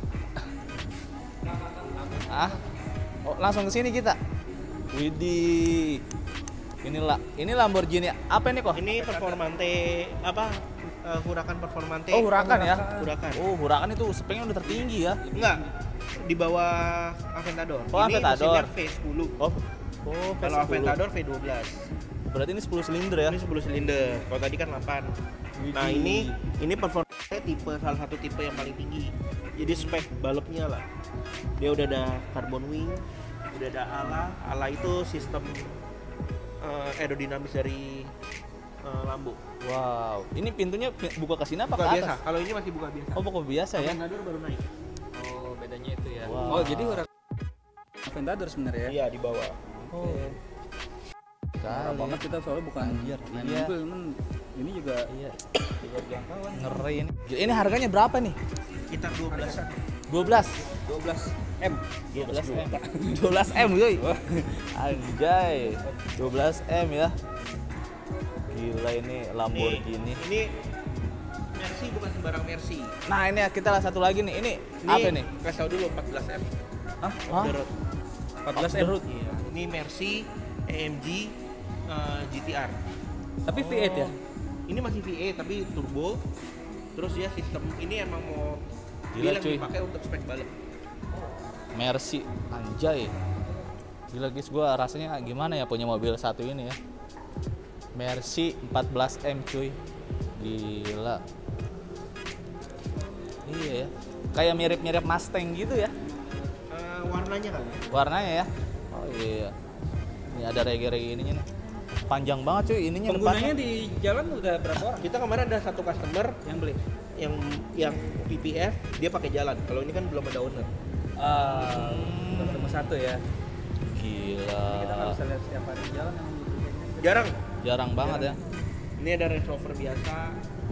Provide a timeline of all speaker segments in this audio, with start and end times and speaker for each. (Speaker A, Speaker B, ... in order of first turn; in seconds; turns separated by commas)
Speaker A: 1.4-2.6, Speaker B: 2.3-2.6, Speaker B: 3.2-4.2, Speaker B: 4.9-6.0, Speaker B: 6.8-9.4, Speaker C: 8.7-13.4, Speaker B: 12.1-15.2, Speaker A: 12.3-13.1, Speaker A: 14.7-15.7, Speaker C: 15.3-19.3, Speaker B: 17.9-18.7, Speaker B: 19.4-21.0, Speaker C: 20.4-21.9, Speaker B: 22.3-23.4, Speaker C: 23.2-25.1, Speaker B: 25.6-26.3, Speaker C: 25.7-30.8, Speaker C: 31.6-35.8, Speaker C: 36.6-38.1, Speaker C: 38.8-39.4, Speaker B: 39.6-42.2, Speaker C: 41.7-43.2, Speaker B: 43.1-44.0, Speaker C: 43.7-44.6, Speaker A: 45.1-47.1, Speaker B: 46.2-47.0, Speaker A: 48.0-49.0, Speaker C: 48.9-49.6, Speaker A: 49.7-50.4, Speaker B: 49.9-50.3, Speaker A: 51.6-55.1, Speaker B: 51.6-52.2, Speaker B: 52.8-53.7, Speaker B: 55.1-55.5, Speaker A: 55.7-56.9, Speaker B: 56.5-58.4, Speaker C: 58.9-59.6, Speaker A: 59.3-59.8, Speaker B: 60.1-60.6, Speaker A: 60.6-64.6, Speaker B: 62.1-64.0, Speaker B: 64.7-67.1, Speaker A: 65.5-66.0, Speaker B: 68.5-70.2, Speaker C: 69.5-70.5, Speaker C: 71.5-73.0, Speaker B: 73.0-75.3, Speaker C: 74.8-76.6, Speaker B: 77.0-77.6, Speaker C: 77.2-77.7, Speaker A: 78.4-79.0, Speaker B: 78.5-79.0, Speaker C: 79.0-81.3, Speaker C: 81.9-82.8, Speaker A: 83.5-84.1, Speaker B: 83.5-84.2, Speaker C: 84.7-86.2, Speaker C: 87.0-88.6, Speaker B: 89.1-89.7, Speaker C: 89.1-90.5, Speaker B: 91.7-93.1, Speaker B: 94.1-96.8, Speaker B: 97.9-99.8, Speaker B: 100.4-101.2, Speaker B: 103.5-105.9, Speaker A: 106.0-106.5, Speaker C: 106.7-107.8, Speaker B: 107.9-109.5, Speaker B: 110.3-111.5, Speaker B: 112.0-113.5, Speaker A: 113.0-115.1, Speaker C: 115.0-116.4, Speaker A: 116.4-116.8, Speaker C: 117.2-120.7, Speaker A: 121.2-123.2, Speaker B: 121.3-122.9, Speaker B: 123.8-125.2, Speaker A: 124.6-127.3, Speaker C: 127.0-127.4, Speaker B: 127.6-128.4, Speaker C: 128.0-128.4, Speaker C: 129.0-130.4